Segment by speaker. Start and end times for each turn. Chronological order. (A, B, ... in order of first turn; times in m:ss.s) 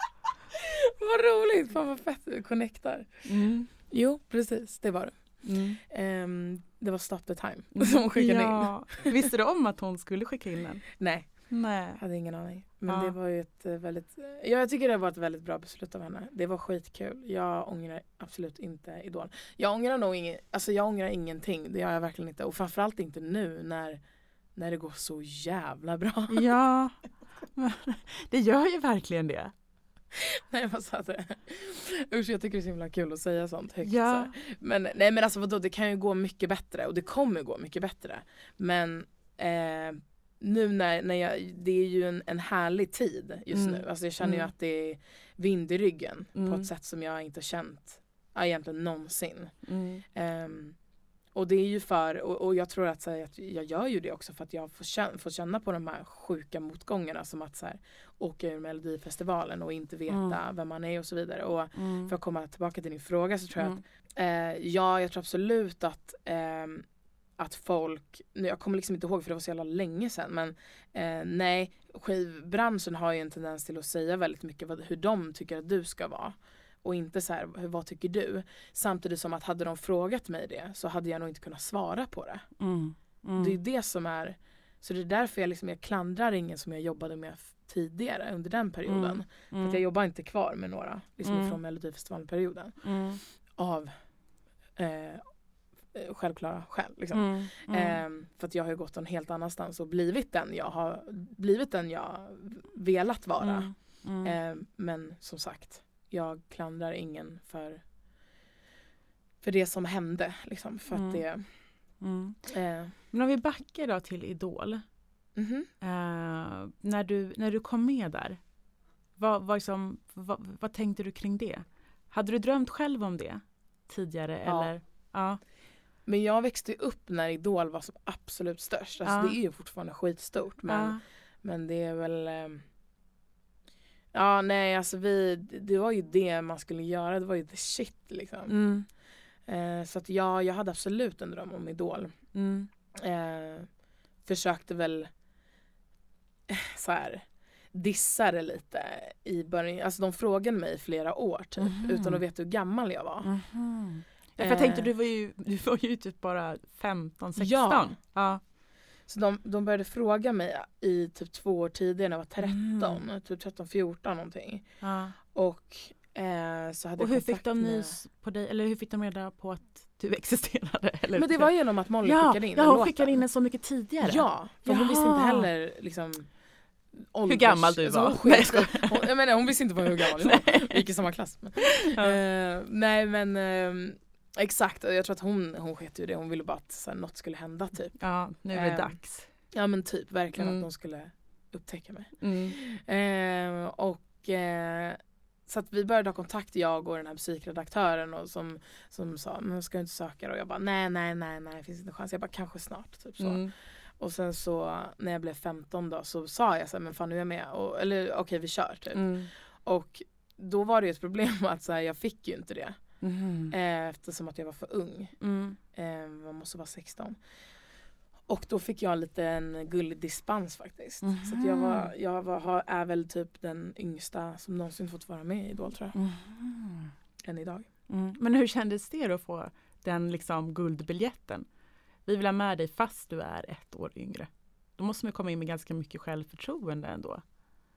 0:00.5-0:03.2 A
0:03.2-0:03.7 B
0:03.9-0:05.2 A
0:05.4-0:05.8 B
0:05.9-0:09.2 A
0:07.7-0:10.9 B
0:11.0-0:24.0 A
0:11.5-0:12.0 B
0:12.9-0:13.1 B
0:24.6-0:26.5 A
0:26.3-0:27.0 B
0:27.5-0:29.5 B
0:30.1-0:49.6 A
0:33.8-0:34.3 B
0:43.5-0:44.5 B
0:46.3-0:46.7 B
0:49.6-0:50.0 B
0:50.1-0:50.8 A
0:51.3-1:06.8 A
1:00.1-1:00.4 B
1:01.7-1:02.1 B
1:07.4-1:22.5 A
1:22.6-1:23.5 B
1:23.4-1:32.8 A
1:28.9-1:29.8 B
1:31.2-1:31.6 B
1:32.8-1:33.2 B
1:33.5-1:33.9 A
1:34.8-1:35.2 A
1:35.9-1:43.7 A
1:37.1-1:38.0 B
1:43.4-1:44.3 B
1:44.2-1:47.8 A
1:49.4-1:51.4 A
1:50.9-1:51.2 B
1:52.0-1:52.4 B
1:52.5-1:52.9 A
1:53.1-1:54.8 B
1:55.4-1:55.7 A
1:55.8-1:58.4 B
1:59.2-2:05.4 B
2:04.4-2:04.7 A
2:06.0-2:12.6 A
2:09.0-2:09.4 B
2:10.7-2:11.0 B
2:14.1-2:18.5 A
2:18.5-2:18.9 B
2:19.5-2:22.1 A
2:22.3-2:22.7 B
2:23.0-2:23.7 A
2:24.2-2:25.1 A
2:26.5-2:33.3 A
2:31.6-2:32.2 B
2:33.2-2:38.4 B
2:34.4-2:34.9 A
2:37.4-2:38.0 A
2:39.1-2:44.7 A
2:42.4-2:43.0 B
2:44.8-2:45.2 B
2:45.3-2:48.0 A
2:47.0-2:51.5 B
2:51.2-2:53.2 A
2:52.0-2:55.5 B
2:54.0-2:56.3 A
2:56.9-3:08.0 A
2:57.3-2:59.0 B
2:59.8-3:00.8 B
3:01.6-3:02.2 B
3:08.0-3:09.3 B
3:08.5-3:09.0 A
3:09.5-3:23.5 A
3:10.4-3:10.6 B
3:12.2-3:12.6 B
3:23.2-3:23.5 B
3:24.0-3:32.8 A
3:28.9-3:29.3 B
3:33.0-3:33.5 B
3:33.5-3:35.2 A
3:35.2-3:35.6 B
3:35.7-3:37.2 A
3:38.3-3:46.0 A
3:41.0-3:41.9 B
3:45.9-3:46.9 B
3:47.2-3:47.7 A
3:47.9-3:51.4 B
3:52.0-3:57.2 B